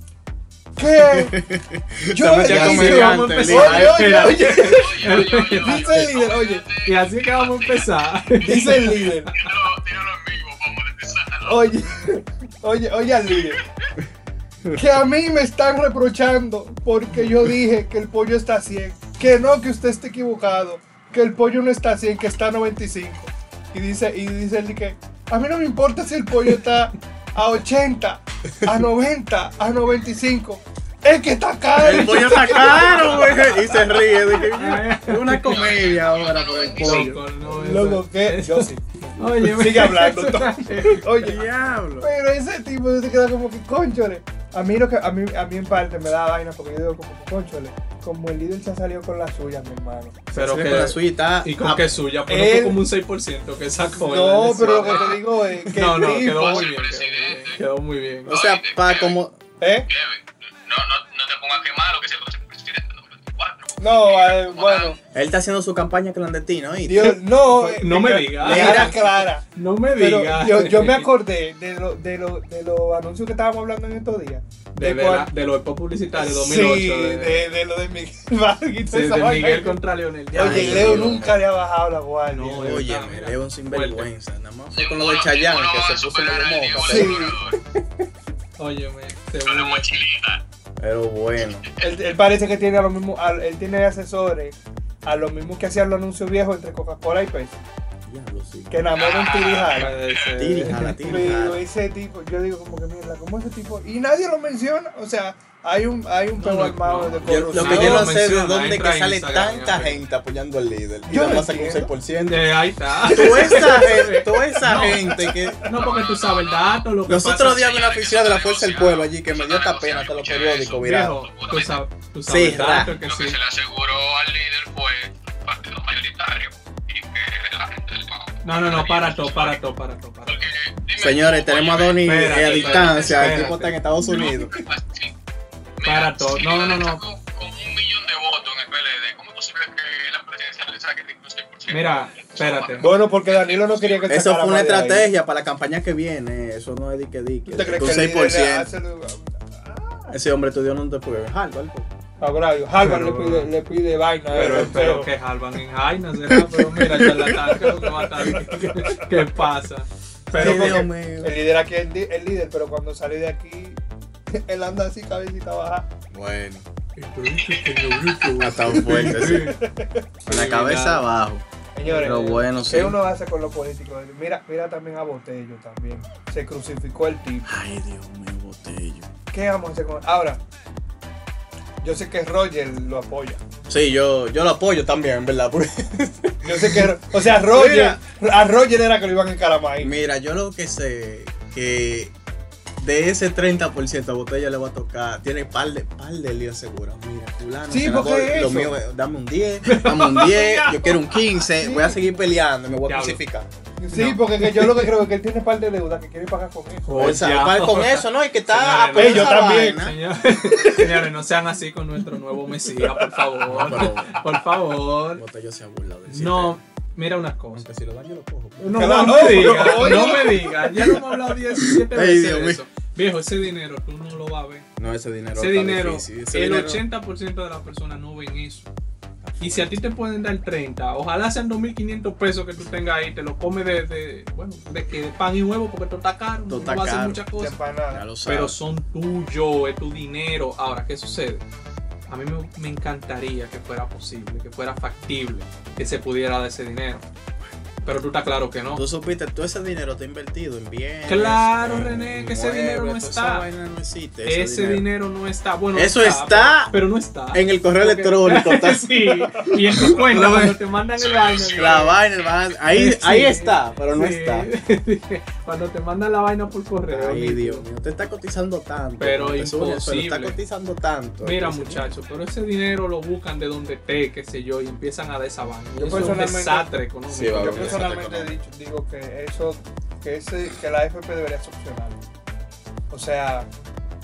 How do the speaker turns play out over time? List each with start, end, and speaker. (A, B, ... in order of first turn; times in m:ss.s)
0:00.8-0:01.3 A
0:01.0-0:04.3 B
0:02.1-0:06.6 A
0:02.4-0:06.1 C
0:04.4-0:08.8 D
0:06.8-0:09.1 C
0:08.4-0:09.3 A
0:09.3-0:11.7 D
0:11.4-0:13.6 A
0:14.7-0:33.6 A
0:31.8-0:37.2 B
0:32.3-0:33.3 C
0:34.1-0:35.8 C
0:35.4-0:37.0 D
0:36.8-0:41.4 A
0:36.8-0:41.0 C
0:41.2-0:42.1 B
0:42.0-0:50.2 A
0:50.3-0:58.3 C
0:50.3-0:52.0 B
0:52.2-0:52.8 A
0:54.0-0:56.7 A
0:56.2-0:57.6 D
0:58.2-0:59.2 D
0:58.3-0:59.4 B
0:59.6-0:59.9 A
0:59.9-1:05.0 D
1:03.8-1:05.0 A
1:05.1-1:07.2 B
1:06.9-1:09.4 A
1:07.4-1:11.1 C
1:08.4-1:09.0 B
1:10.0-1:15.3 A
1:14.7-1:17.5 C
1:16.1-1:19.8 A
1:18.9-1:21.3 C
1:20.3-1:22.8 A
1:20.3-1:21.4 B
1:22.3-1:24.1 C
1:22.6-1:27.4 B
1:24.7-1:27.6 D
1:26.8-1:27.3 A
1:28.6-1:30.0 C
1:29.4-1:30.4 D
1:30.8-1:31.6 B
1:31.6-1:32.0 D
1:31.8-1:37.6 A
1:38.1-1:38.7 B
1:38.7-1:39.9 A
1:38.9-1:39.9 D
1:39.7-1:41.3 C
1:40.4-1:41.6 B
1:41.0-1:48.2 A
1:46.4-1:50.0 C
1:47.2-1:55.6 B
1:51.1-1:51.9 A
1:52.3-1:57.6 C
1:55.7-1:56.8 D
1:57.1-2:01.2 B
1:57.4-2:01.8 D
2:00.8-2:03.4 C
2:02.3-2:02.9 B
2:02.8-2:09.6 D
2:08.4-2:10.5 C
2:10.2-2:13.4 D
2:11.0-2:14.6 B
2:12.0-2:13.8 C
2:14.0-2:14.5 A
2:14.3-2:15.1 D
2:15.8-2:24.1 D
2:15.8-2:17.0 C
2:21.7-2:22.9 C
2:22.8-2:25.1 A
2:24.1-2:28.7 B
2:27.5-2:30.1 A
2:30.1-2:31.9 B
2:32.2-2:35.1 A
2:32.8-2:33.5 C
2:34.3-2:40.9 C
2:36.5-2:37.3 B
2:37.6-2:38.9 A
2:40.3-2:41.3 B
2:40.3-2:43.8 A
2:44.3-2:45.9 A
2:46.1-2:46.6 B
2:47.0-2:49.6 C
2:47.4-2:48.0 D
2:48.4-2:49.5 B
2:48.7-2:50.0 A
2:50.2-2:51.0 C
2:50.3-2:51.4 B
2:51.7-2:57.5 A
2:51.8-2:52.4 C
2:52.0-2:53.0 B
2:57.4-2:59.1 B
2:59.3-3:00.4 A
3:01.8-3:03.4 A
3:03.7-3:08.0 B
3:06.4-3:09.9 A
3:09.8-3:12.1 B
3:12.8-3:23.5 B
3:17.7-3:18.7 A
3:19.7-3:21.9 C
3:22.8-3:23.2 C
3:23.8-3:27.0 A
3:23.9-3:24.9 C
3:26.8-3:35.2 C
3:27.0-3:30.0 B
3:29.0-3:29.8 A
3:30.5-3:31.0 A
3:33.4-3:34.2 B
3:35.1-3:36.6 B
3:36.1-3:37.7 C
3:37.5-3:42.6 B
3:38.6-3:44.7 C
3:38.7-3:40.7 A
3:44.8-3:46.8 B
3:45.3-3:48.7 C
3:49.2-3:49.8 B
3:49.4-3:57.6 C
3:56.5-3:57.2 B
3:57.4-3:58.0 A
3:57.9-3:58.6 B
3:58.2-4:01.4 C
4:02.1-4:07.0 C
4:07.8-4:08.8 C
4:08.7-4:14.9 B
4:11.1-4:13.5 C
4:14.2-4:22.0 C
4:15.7-4:16.8 B
4:17.3-4:19.1 B
4:19.8-4:20.6 B
4:21.0-4:21.8 D
4:21.5-4:24.5 B
4:22.7-4:27.6 C
4:26.9-4:31.9 B
4:29.0-4:30.4 C
4:31.2-4:37.8 C
4:35.8-4:36.7 A
4:37.1-4:38.4 B
4:37.3-4:42.0 A
4:42.9-4:43.5 A